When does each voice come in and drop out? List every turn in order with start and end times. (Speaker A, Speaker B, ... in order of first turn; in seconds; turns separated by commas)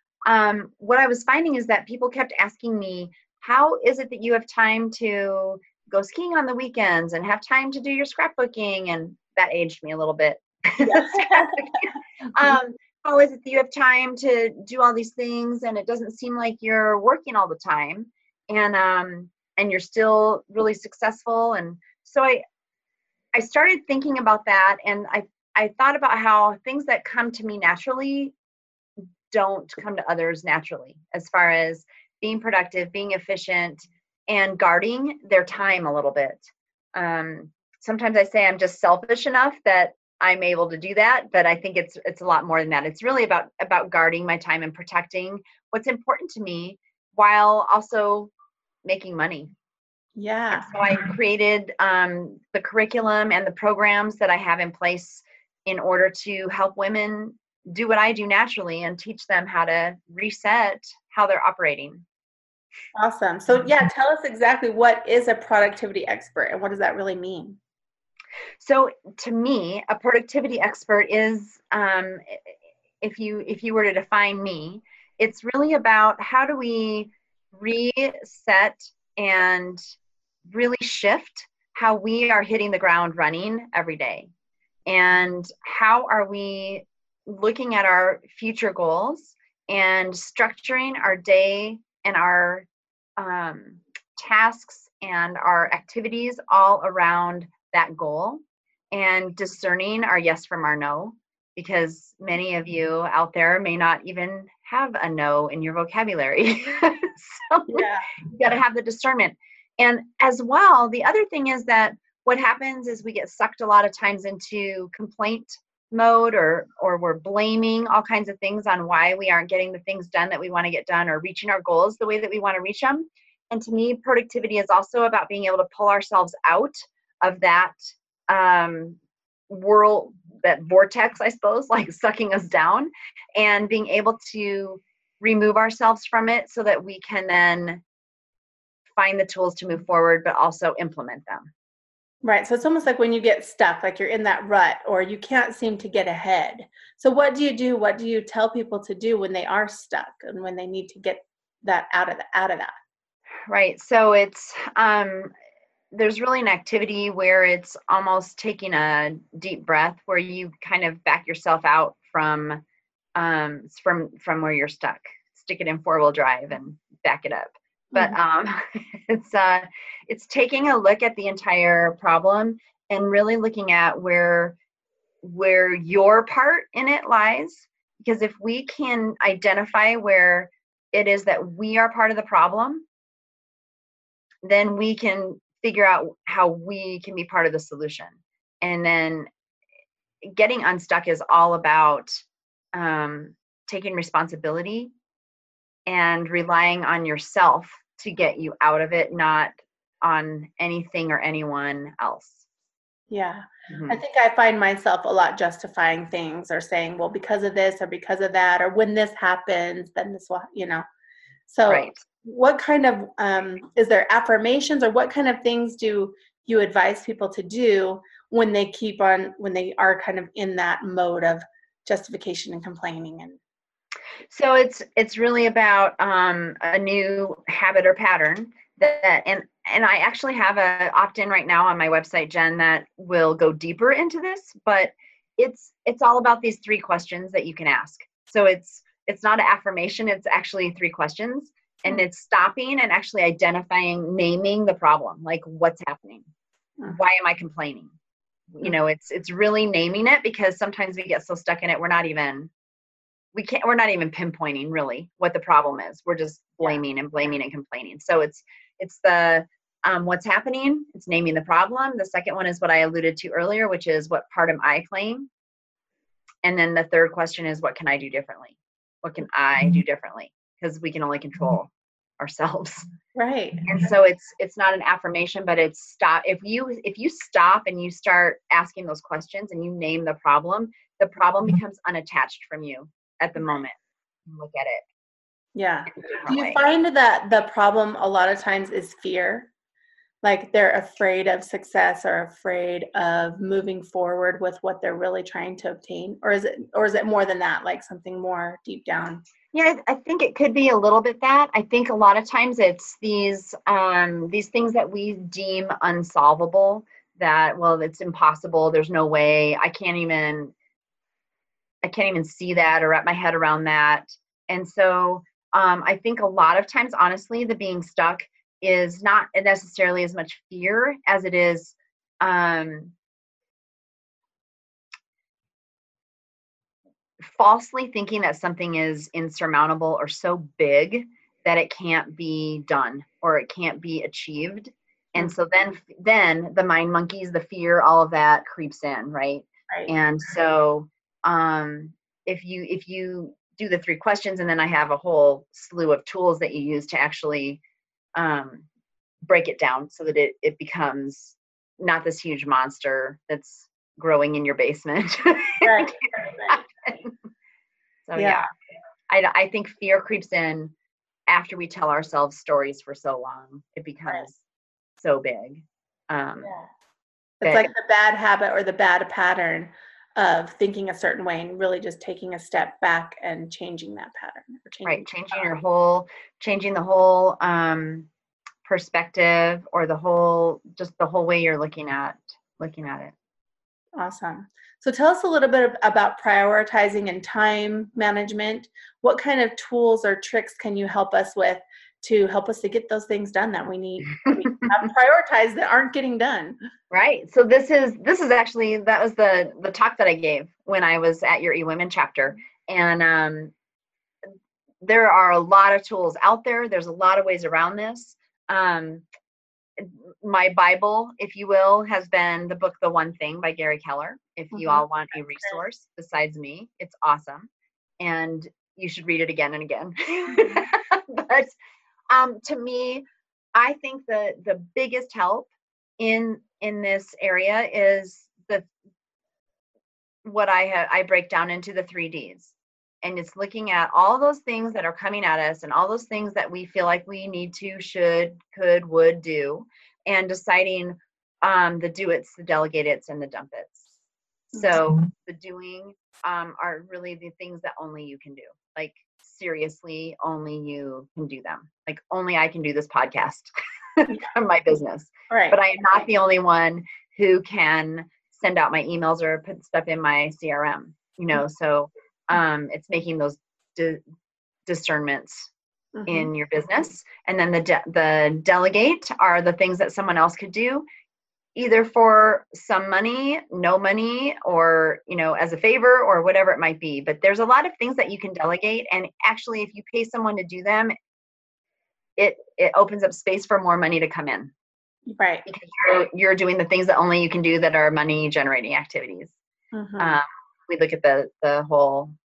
Speaker A: 0.3-22.4, Speaker B: 10.8-11.6, Speaker A: 23.3-28.3, Speaker A: 29.3-48.3, Speaker A: 48.9-49.5, Speaker B: 50.2-50.7, Speaker A: 50.5-62.0, Speaker B: 63.0-67.6, Speaker A: 68.6-79.8, Speaker A: 80.5-84.3, Speaker A: 84.9-92.7, Speaker A: 93.2-98.4, Speaker A: 98.9-129.0, Speaker B: 107.7-108.1, Speaker A: 129.5-137.8, Speaker A: 138.9-141.5, Speaker B: 142.2-152.7, Speaker A: 153.5-155.3, Speaker A: 155.9-162.6, Speaker A: 163.2-174.6, Speaker A: 175.2-182.8, Speaker A: 184.4-189.3, Speaker A: 190.2-192.2, Speaker A: 192.8-194.9, Speaker A: 195.9-202.5, Speaker B: 203.1-210.8, Speaker A: 203.7-204.0, Speaker B: 211.5-223.4, Speaker A: 211.7-212.0, Speaker A: 224.3-246.3, Speaker A: 246.9-247.9, Speaker A: 248.5-252.5, Speaker A: 253.3-265.3, Speaker A: 266.4-272.9, Speaker B: 273.1-273.7, Speaker A: 273.6-283.8, Speaker A: 284.3-284.8, Speaker B: 285.6-289.5, Speaker A: 285.9-286.6, Speaker B: 290.2-299.2, Speaker A: 299.5-310.5, Speaker A: 311.8-322.9, Speaker A: 327.2-347.6, Speaker A: 348.2-348.6, Speaker A: 349.3-357.1, Speaker B: 355.6-356.6, Speaker A: 358.1-358.5, Speaker B: 358.1-358.5, Speaker A: 359.1-360.7, Speaker A: 361.3-364.4, Speaker A: 365.0-366.5, Speaker B: 367.4-375.5, Speaker A: 367.4-367.7, Speaker A: 374.8-378.1, Speaker A: 378.6-383.1, Speaker B: 384.0-396.6, Speaker A: 396.9-403.5, Speaker A: 404.8-409.1, Speaker A: 409.8-417.5, Speaker B: 414.5-414.9, Speaker A: 418.0-421.6, Speaker A: 422.1-423.1, Speaker A: 423.6-428.7, Speaker A: 430.2-443.9, Speaker A: 444.6-464.0, Speaker B: 455.3-455.6, Speaker A: 464.7-465.5, Speaker B: 465.9-466.3, Speaker A: 466.1-470.9, Speaker A: 471.6-480.9, Speaker A: 482.2-484.5, Speaker B: 485.1-485.4, Speaker A: 485.5-489.4, Speaker B: 489.7-490.2, Speaker A: 490.0-492.1